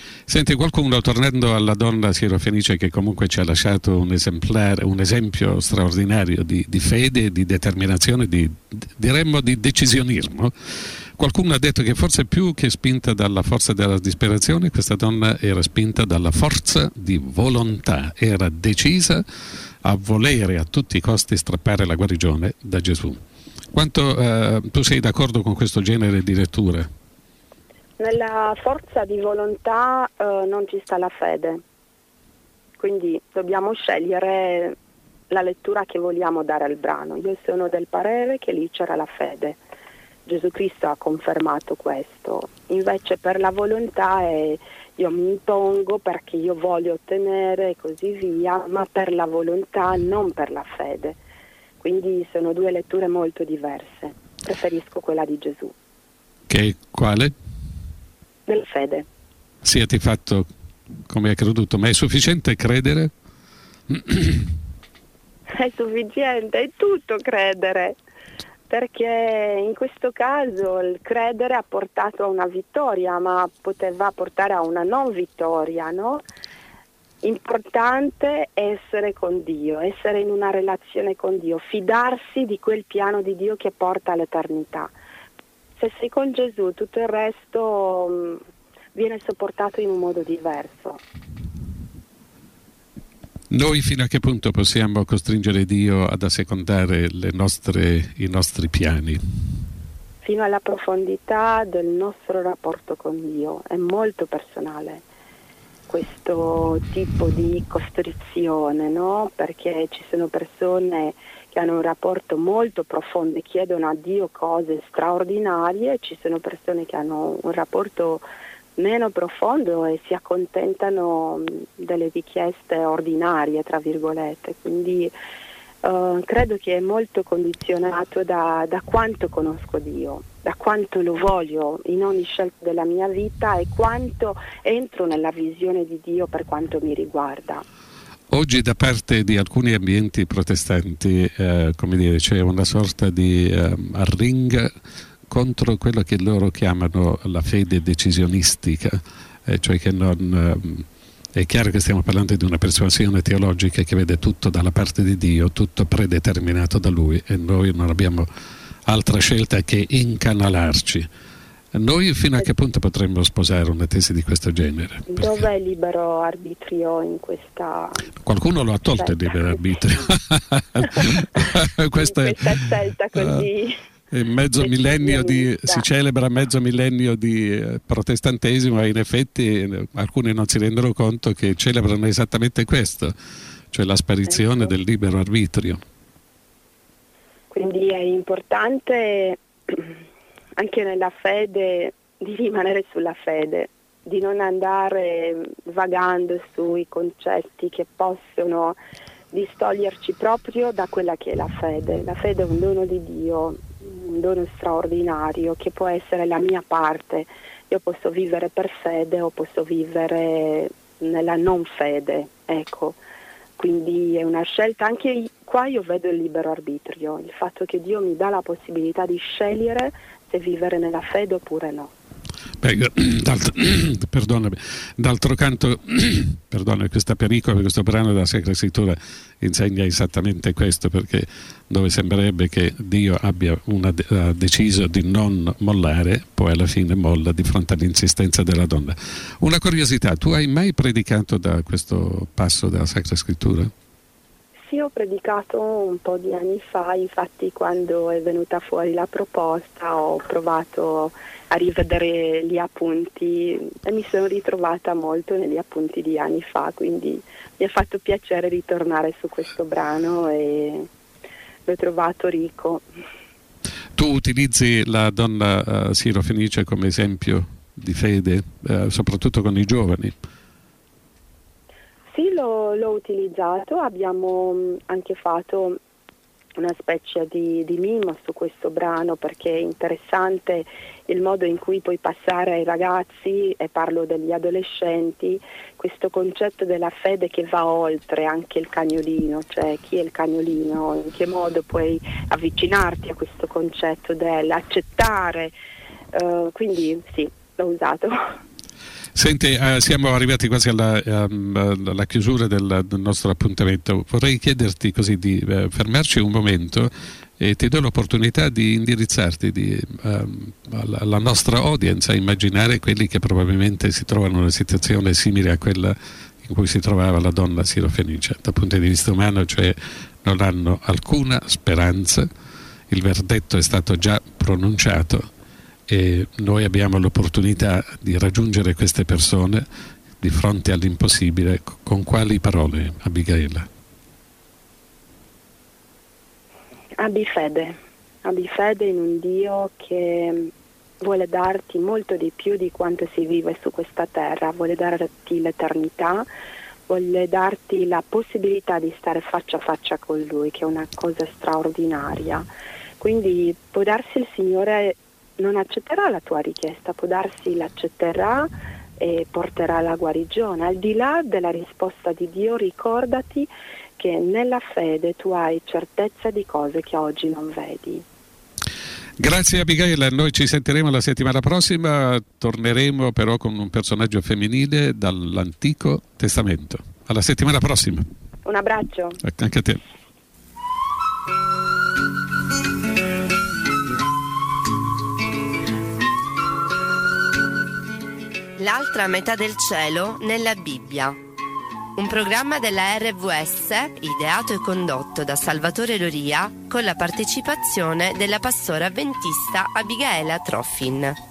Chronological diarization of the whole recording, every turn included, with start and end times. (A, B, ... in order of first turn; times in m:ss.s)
0:00.3-0:19.2 A
0:19.8-0:23.2 A
0:23.7-0:26.9 A
0:28.0-0:31.6 B
0:32.8-0:34.8 B
0:35.3-0:39.6 B
0:40.2-0:51.2 B
0:51.8-0:55.7 B
0:56.5-0:57.3 A
0:58.5-0:59.1 B
0:59.6-1:00.5 A
1:01.1-1:03.1 A
1:03.9-1:04.4 A
1:05.5-1:08.0 B
1:08.7-1:16.2 B
1:17.2-1:24.9 B
1:25.8-1:28.4 B
1:28.9-1:31.0 B
1:33.5-1:39.2 A
1:40.2-1:45.0 B
1:45.9-1:58.2 B
1:58.8-2:05.1 B
2:05.8-2:17.6 B
2:18.3-2:24.7 A
2:25.3-2:38.2 A
2:38.8-2:41.1 A
2:41.7-2:45.3 A
2:45.1-2:48.1 B
2:48.2-2:52.4 A
2:50.8-2:53.8 B
2:53.2-2:53.5 A
2:54.1-3:03.1 A
2:54.6-2:55.8 B
3:03.7-3:05.8 A
3:07.5-3:10.0 B
3:10.6-3:18.8 B
3:19.3-3:33.0 B
3:33.6-3:41.9 B
3:42.6-4:03.7 A
4:04.7-4:20.9 B
4:21.6-4:22.8 B
4:23.9-4:30.2 A
4:32.1-4:35.8 B
4:36.6-4:55.5 B
4:56.1-4:58.3 B
4:59.1-5:22.3 A
5:22.9-5:25.3 A
5:25.9-5:29.6 A
5:30.2-5:33.7 A
5:37.0-5:46.2 B
5:46.9-5:52.4 B
5:53.0-6:08.0 B
6:09.2-6:18.0 A
6:18.4-6:19.2 B
6:19.2-6:19.8 A
6:28.6-6:31.2 C
6:32.0-6:41.2 C